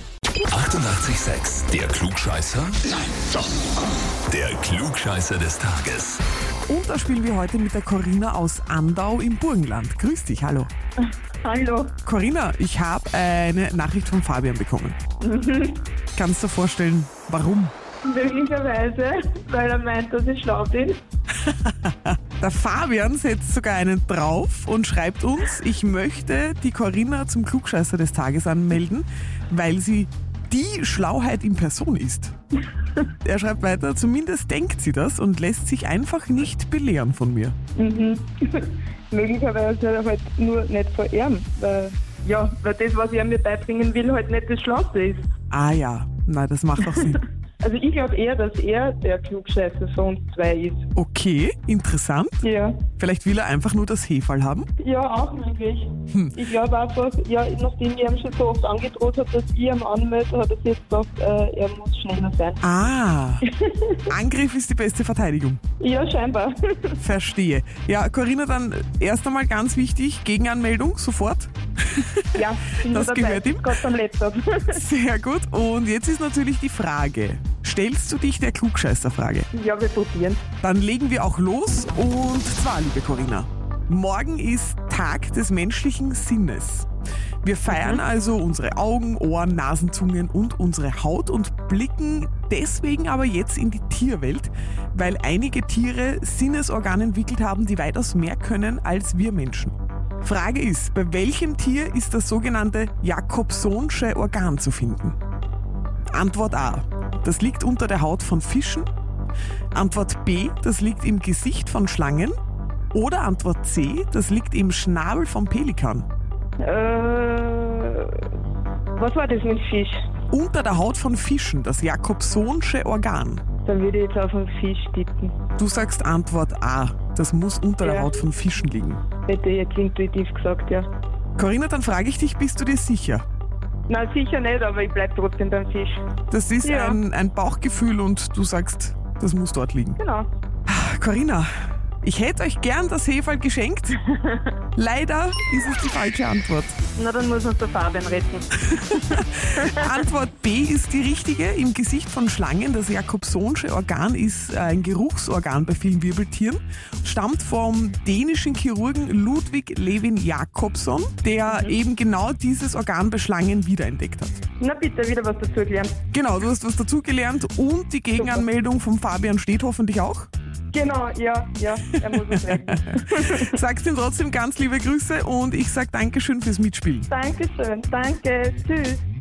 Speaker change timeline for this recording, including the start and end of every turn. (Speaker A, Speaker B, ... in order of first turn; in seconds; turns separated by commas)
Speaker A: 0.5-2.8, Speaker A: 4.3-6.2, Speaker B: 6.7-10.7, Speaker C: 11.4-11.9, Speaker B: 12.1-15.0, Speaker C: 15.2-15.8, Speaker B: 16.1-17.7, Speaker C: 18.0-21.0, Speaker B: 21.4-32.3, Speaker B: 33.2-37.5, Speaker C: 37.8-45.2, Speaker B: 45.5-47.2, Speaker C: 46.9-50.9, Speaker B: 51.0-54.7, Speaker C: 52.4-52.8, Speaker C: 54.8-62.8, Speaker B: 56.1-56.4, Speaker B: 62.6-63.5, Speaker C: 63.4-64.1, Speaker B: 64.1-65.6, Speaker C: 65.8-67.0, Speaker B: 67.0-73.7, Speaker C: 72.3-74.8, Speaker B: 74.7-79.5, Speaker C: 79.5-80.4, Speaker B: 80.6-86.9, Speaker B: 87.4-105.2, Speaker C: 87.7-88.0, Speaker B: 106.1-108.9, Speaker B: 109.7-112.3, Speaker B: 112.9-116.1, Speaker C: 116.6-118.2, Speaker C: 119.0-120.0, Speaker B: 120.3-123.4, Speaker C: 123.6-125.3, Speaker B: 125.6-129.0, Speaker C: 127.8-128.2, Speaker C: 129.2-130.9, Speaker B: 131.4-133.2, Speaker C: 133.9-136.0, Speaker B: 136.3-140.0, Speaker C: 136.6-137.0, Speaker C: 140.0-140.3, Speaker B: 140.7-141.5, Speaker B: 142.0-144.0, Speaker C: 144.1-144.5, Speaker B: 144.7-146.8, Speaker C: 147.0-150.0, Speaker B: 148.9-164.4, Speaker C: 161.5-161.8, Speaker C: 164.6-165.9, Speaker B: 166.1-170.3, Speaker C: 168.2-168.4, Speaker C: 170.7-173.6, Speaker B: 172.2-177.1, Speaker C: 177.1-179.0